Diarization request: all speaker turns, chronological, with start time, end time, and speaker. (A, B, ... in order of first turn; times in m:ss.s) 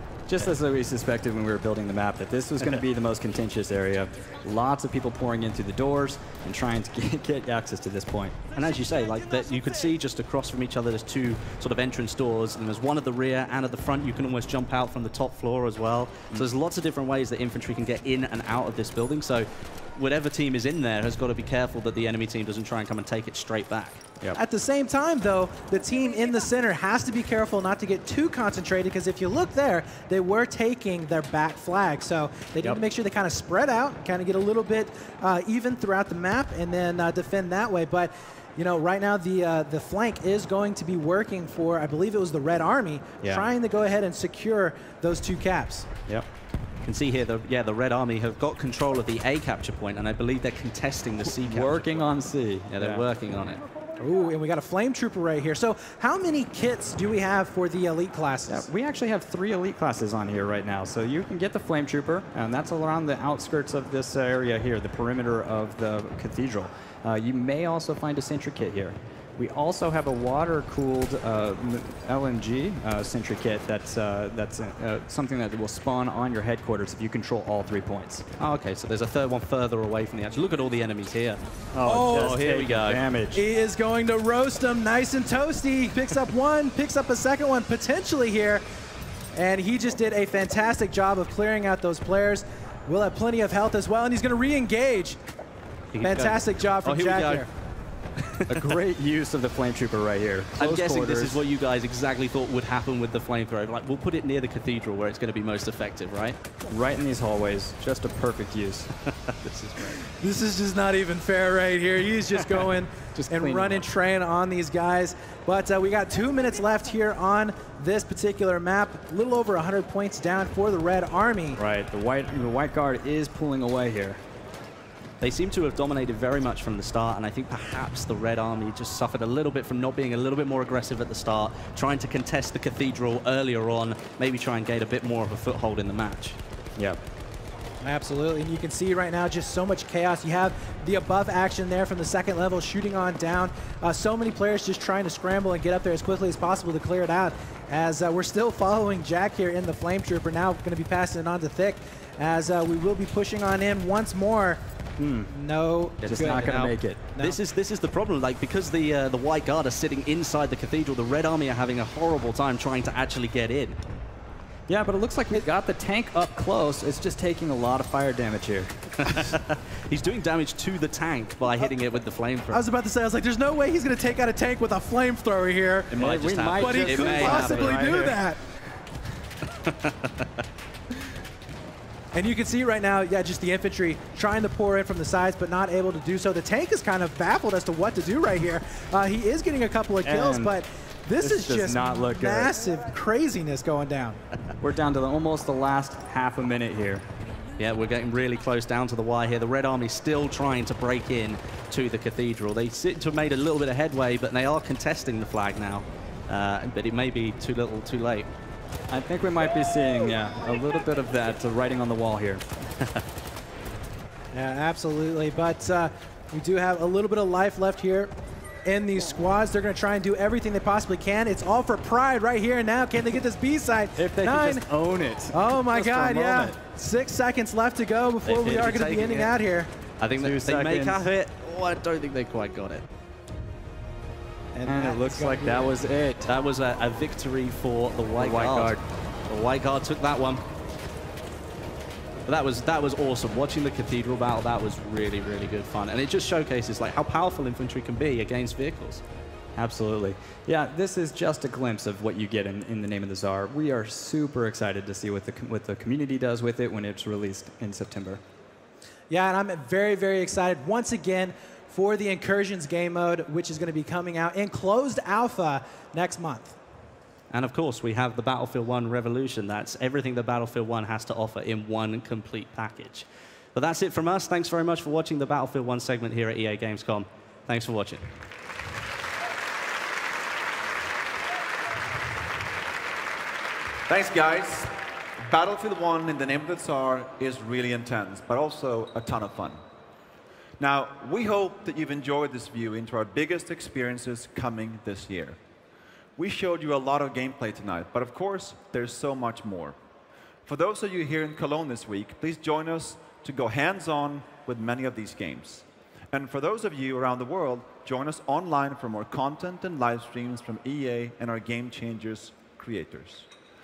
0:00.3-0:08.4 A
0:08.6-0:24.0 B
0:24.4-0:45.9 C
0:43.2-0:43.5 A
0:46.8-0:52.1 B
0:51.2-0:53.0 A
0:52.7-0:53.6 B
0:54.0-0:58.7 C
0:58.5-1:18.2 A
1:18.4-1:21.4 B
1:21.7-1:23.4 A
1:21.9-1:22.4 C
1:22.0-1:23.0 B
1:23.3-1:28.6 C
1:29.3-1:35.2 C
1:35.9-1:37.5 B
1:36.0-1:37.5 C
1:38.2-1:38.7 B
1:38.5-1:41.4 A
1:40.6-1:46.4 B
1:46.7-1:48.9 A
1:49.1-1:50.1 B
1:50.2-2:01.6 C
1:53.1-1:53.9 A
2:01.6-2:04.2 A
2:05.2-2:16.4 B
2:16.8-2:17.0 A
2:17.8-2:34.6 C
2:35.0-2:35.3 A
2:35.3-2:36.6 C
2:36.0-2:43.8 B
2:36.0-2:37.0 A
2:44.7-2:49.3 A
2:49.0-2:52.6 B
2:52.5-2:56.0 C
2:55.9-2:58.1 B
2:56.0-2:58.2 A
2:56.5-2:58.4 C
2:59.5-3:00.4 B
3:02.1-3:14.2 C
3:10.0-3:10.6 A
3:11.2-3:12.6 A
3:14.6-3:17.1 A
3:17.6-3:28.3 B
3:28.9-3:32.4 A
3:34.3-3:38.1 C
3:38.6-3:44.6 C
3:44.0-3:46.6 A
3:45.3-3:49.7 C
3:48.2-3:49.4 B
3:50.0-3:52.8 B
3:50.2-3:51.1 A
3:54.5-3:55.7 C
3:54.6-3:56.3 A
3:56.3-3:58.8 B
3:58.2-3:58.8 A
3:59.3-4:00.4 B
4:02.3-4:09.0 B
4:09.6-4:18.2 A
4:19.1-4:26.6 C
4:27.3-4:38.1 B
4:43.9-4:44.7 D
4:45.3-4:49.6 D
4:50.6-4:55.4 D
4:56.2-4:59.8 D
5:00.5-5:13.3 D